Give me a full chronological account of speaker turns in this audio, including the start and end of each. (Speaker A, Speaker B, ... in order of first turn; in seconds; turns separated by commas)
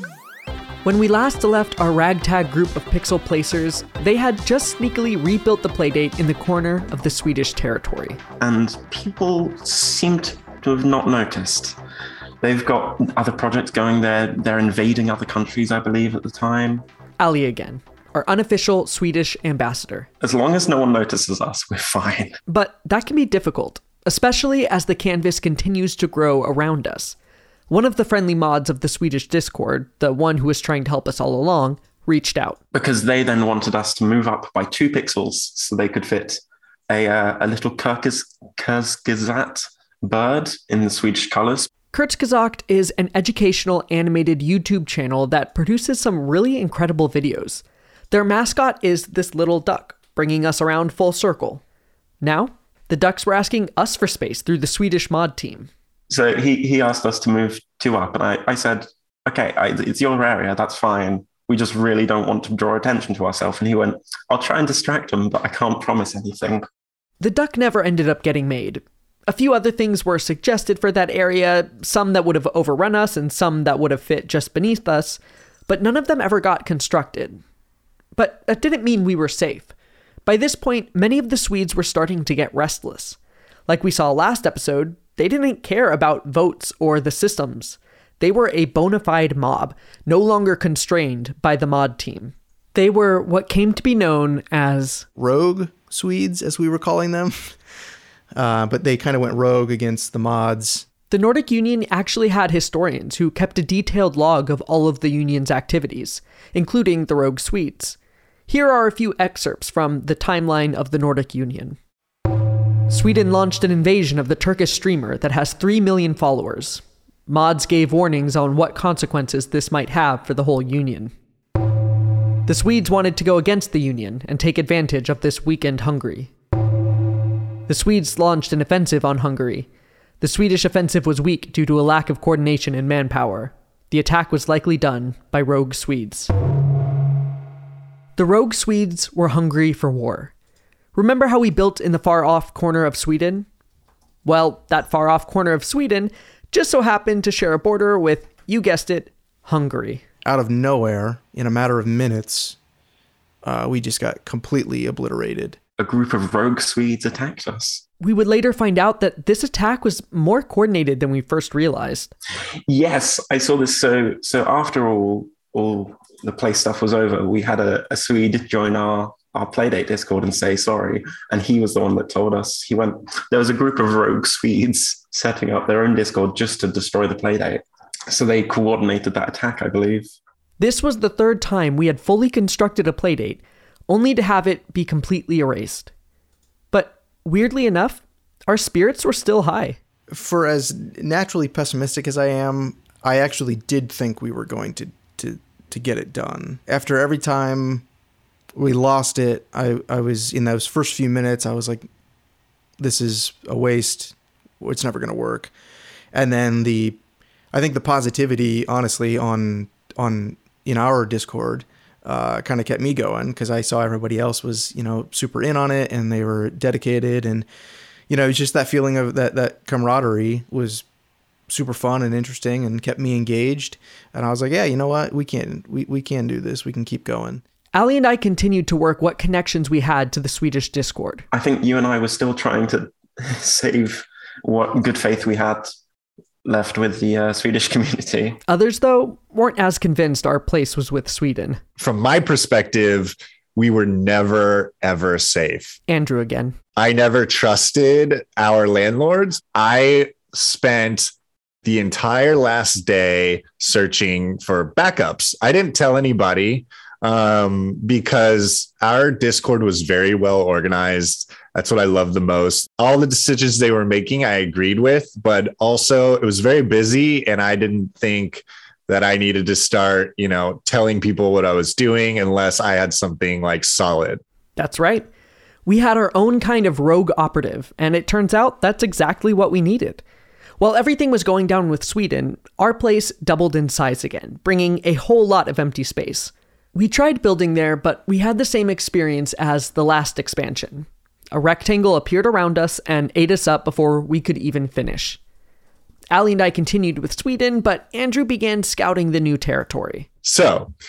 Speaker A: 0.8-8.2, Speaker B: 8.4-11.8, Speaker B: 12.4-16.9, Speaker A: 17.2-20.1, Speaker B: 20.2-22.4, Speaker A: 22.5-27.1, Speaker A: 27.7-32.6, Speaker B: 32.7-41.7, Speaker A: 41.9-51.6, Speaker A: 52.2-55.7, Speaker B: 56.1-66.6, Speaker A: 67.2-77.4, Speaker A: 78.2-79.7, Speaker A: 80.2-95.0, Speaker C: 95.2-97.5, Speaker C: 98.4-100.8, Speaker A: 101.1-108.0, Speaker A: 108.5-111.8, Speaker A: 112.9-121.1, Speaker A: 122.5-126.3, Speaker A: 127.7-129.7, Speaker A: 130.2-136.3, Speaker A: 138.2-140.3, Speaker A: 140.9-143.5, Speaker A: 144.2-150.0, Speaker C: 150.2-152.6, Speaker C: 153.4-155.6, Speaker B: 155.8-157.8, Speaker A: 158.0-162.1, Speaker B: 162.7-180.1, Speaker A: 180.6-185.9, Speaker A: 186.7-189.8, Speaker C: 190.1-197.8, Speaker C: 198.6-201.9, Speaker C: 202.8-205.5, Speaker C: 206.1-207.0, Speaker C: 207.5-217.4, Speaker C: 218.1-220.8, Speaker C: 221.5-227.4, Speaker A: 227.7-231.2, Speaker B: 231.3-235.7, Speaker B: 236.4-238.4, Speaker A: 238.5-241.6, Speaker D: 241.8-245.8, Speaker A: 245.9-246.6, Speaker D: 246.8-251.1, Speaker D: 251.6-274.2, Speaker A: 274.6-275.1, Speaker A: 275.6-280.0, Speaker A: 280.6-295.2, Speaker A: 296.1-300.1, Speaker D: 300.2-300.7